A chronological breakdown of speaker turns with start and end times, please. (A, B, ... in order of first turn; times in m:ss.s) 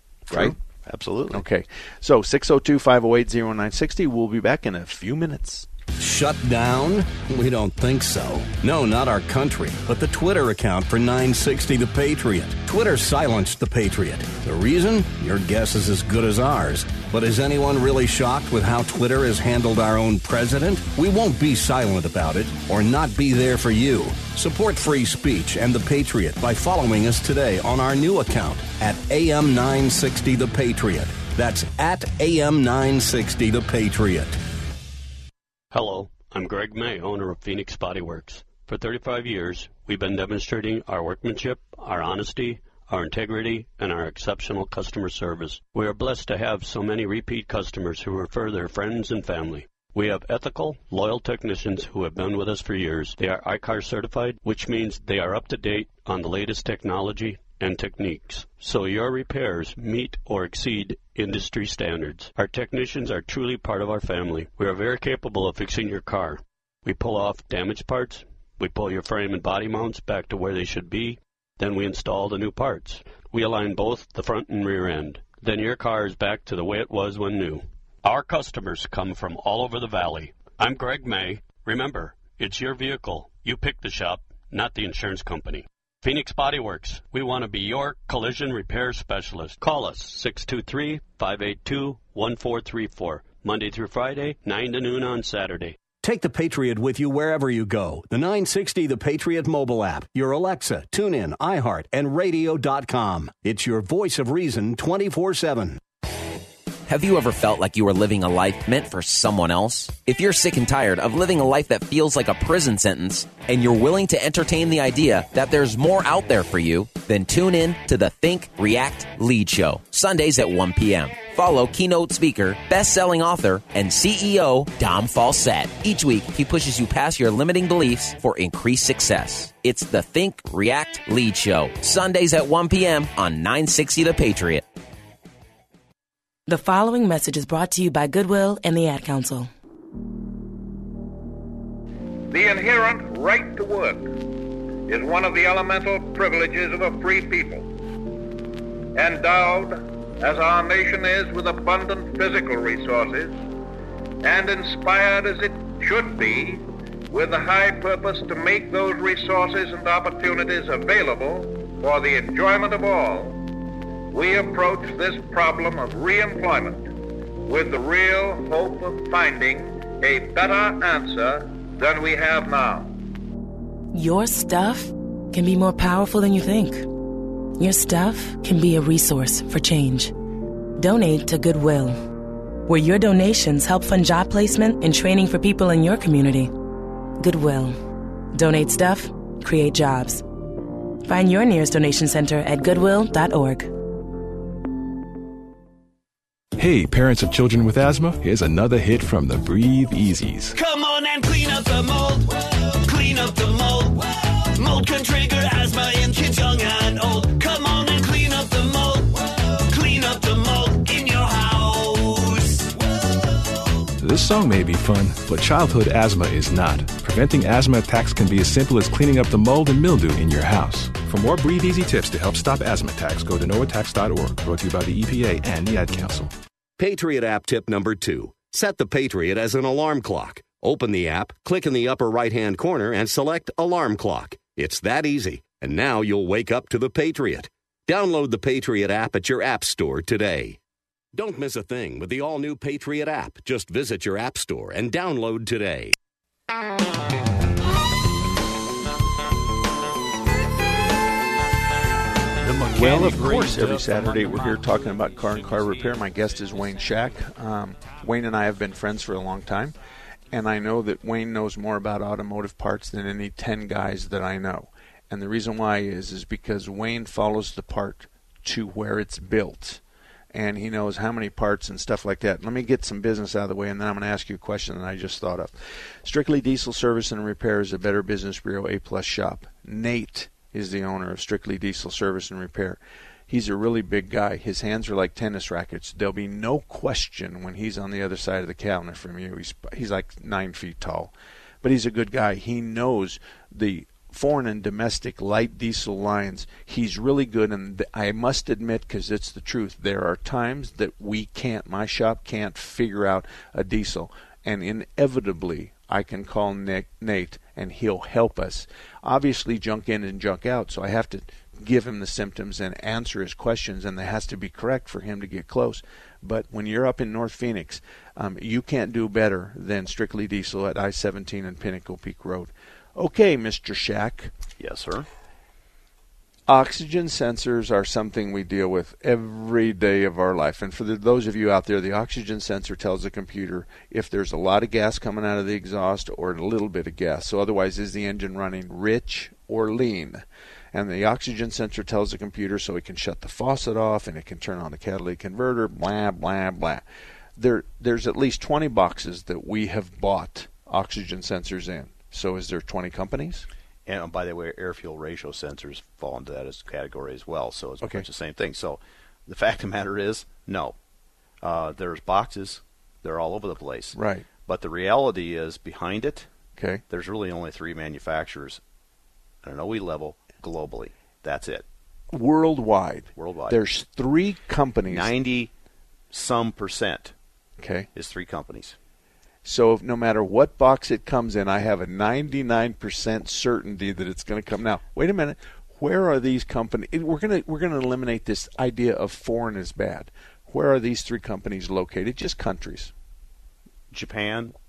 0:00.3-0:00.6 A
0:00.3-0:01.4 B
0:01.3-0:05.7 A
0:06.0-0:34.4 C
0:35.7-1:35.8 D
1:36.0-1:45.8 C
1:46.9-2:14.6 E
2:16.5-2:19.5 F
2:22.3-2:24.2 G
2:24.9-2:27.7 G
2:28.9-2:33.4 G
2:34.2-2:43.4 G
2:44.1-2:46.9 G
2:47.5-2:52.9 G
2:53.9-2:56.9 F
2:57.6-3:00.1 F
3:00.8-3:02.0 F
3:02.7-3:06.5 F
3:07.2-3:07.8 F
3:08.3-3:10.2 F
3:11.0-3:13.7 F
3:16.6-3:20.6 H
3:20.6-3:33.8 I
3:34.0-3:46.3 H
3:46.8-4:00.6 J
4:01.1-4:05.9 J
4:12.5-4:19.7 A
4:20.3-4:29.8 A
4:30.3-4:35.5 A
4:36.0-5:24.3 A
5:24.6-5:25.1 B
5:26.5-5:46.8 A
5:47.4-5:53.4 A
5:53.8-6:00.7 B
6:01.4-6:06.3 B
6:03.9-6:04.2 A
6:06.6-6:06.8 A
6:06.9-6:08.6 B
6:09.4-6:11.6 B
6:12.1-6:15.1 A
6:13.2-6:13.6 B
6:14.9-6:15.5 B
6:16.1-6:17.1 B
6:17.6-6:17.9 A
6:17.9-6:18.8 B
6:19.4-6:32.9 A
6:33.9-6:34.5 B